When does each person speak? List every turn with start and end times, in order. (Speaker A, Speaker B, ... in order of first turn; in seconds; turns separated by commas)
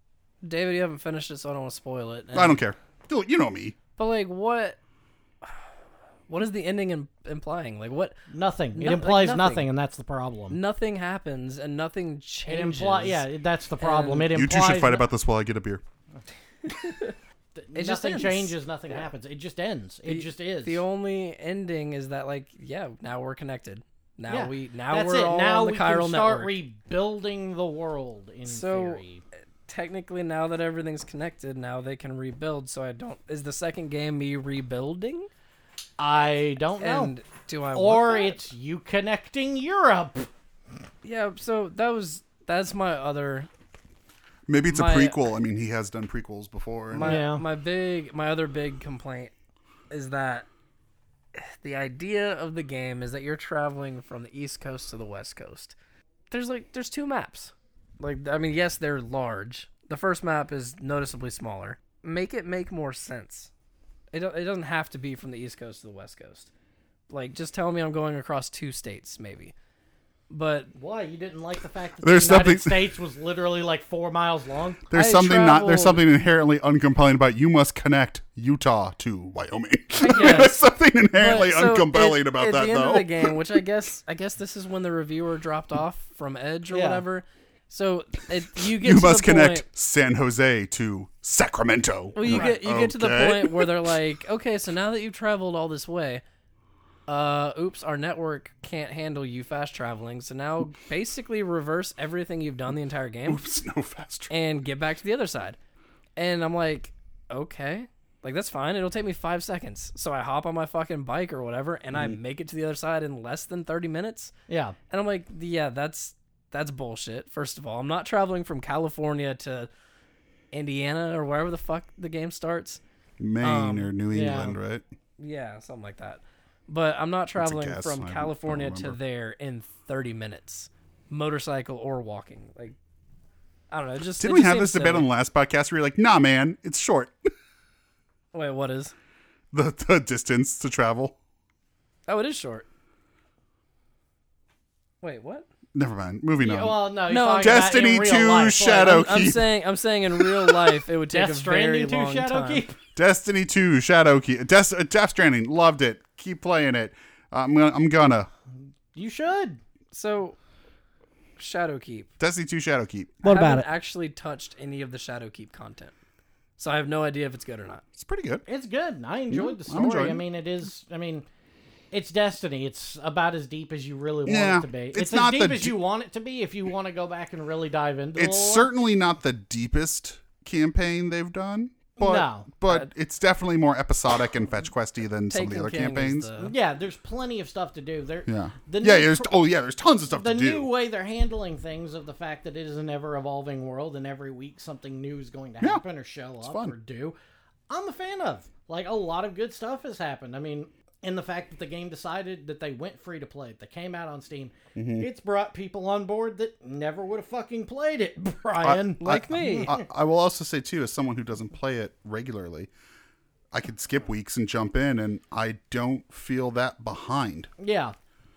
Speaker A: 0.4-2.6, Speaker B: 2.3-3.8, Speaker A: 4.0-4.8, Speaker A: 6.3-8.2, Speaker C: 8.3-10.6, Speaker A: 8.7-9.7, Speaker A: 10.5-13.2, Speaker C: 12.5-15.0, Speaker A: 13.8-14.3, Speaker B: 14.3-15.8, Speaker A: 16.6-17.1, Speaker C: 17.6-20.8, Speaker A: 17.7-18.5, Speaker A: 20.0-26.5, Speaker C: 24.3-29.2, Speaker A: 28.4-29.0, Speaker A: 29.7-35.3, Speaker C: 36.0-37.1, Speaker A: 36.8-38.4, Speaker C: 37.7-40.3, Speaker A: 41.0-43.5, Speaker B: 44.5-47.2, Speaker A: 44.7-45.2, Speaker A: 46.9-49.3, Speaker C: 47.0-47.4, Speaker A: 49.9-50.5, Speaker A: 51.3-55.7, Speaker A: 56.3-63.5, Speaker A: 64.1-66.5, Speaker A: 67.1-69.5, Speaker A: 70.3-70.7, Speaker C: 70.7-74.8, Speaker B: 72.0-72.9, Speaker B: 74.9-83.4, Speaker A: 74.9-76.0, Speaker A: 80.0-89.7, Speaker C: 80.0-80.5, Speaker C: 86.7-87.0, Speaker B: 88.8-93.9, Speaker A: 92.1-96.2, Speaker C: 92.2-92.6, Speaker A: 97.1-103.4, Speaker B: 103.2-104.3, Speaker A: 104.3-105.6, Speaker A: 106.2-114.3, Speaker B: 111.9-112.2, Speaker C: 114.5-114.8, Speaker A: 114.9-119.7, Speaker A: 120.5-122.8, Speaker B: 123.2-124.8, Speaker A: 123.4-123.9, Speaker C: 124.1-124.6, Speaker A: 125.2-132.8, Speaker B: 127.4-129.0, Speaker A: 133.7-135.1, Speaker B: 134.2-137.3, Speaker A: 138.3-138.9, Speaker B: 139.5-141.2, Speaker A: 142.1-142.7, Speaker A: 145.0-145.5, Speaker B: 145.7-146.8, Speaker C: 146.4-149.1, Speaker A: 147.1-147.8, Speaker B: 147.4-149.5, Speaker A: 148.6-152.6, Speaker B: 150.2-150.7, Speaker C: 151.1-152.8, Speaker B: 152.9-158.3, Speaker C: 158.9-159.6, Speaker A: 159.9-160.4, Speaker A: 161.4-162.1, Speaker B: 162.2-163.2, Speaker C: 163.2-163.7, Speaker A: 163.2-165.9, Speaker A: 166.6-167.8, Speaker B: 167.9-168.4, Speaker C: 168.4-171.2, Speaker B: 169.3-170.2, Speaker C: 171.9-178.7, Speaker B: 174.2-175.8, Speaker B: 178.2-186.3, Speaker C: 182.0-182.5, Speaker A: 185.3-186.5, Speaker C: 186.4-189.3, Speaker B: 188.3-190.7, Speaker C: 190.1-197.2, Speaker B: 196.4-196.7, Speaker C: 197.7-209.9, Speaker B: 204.7-205.1, Speaker B: 208.6-212.7, Speaker A: 209.0-209.7, Speaker B: 213.5-217.5, Speaker C: 217.6-217.9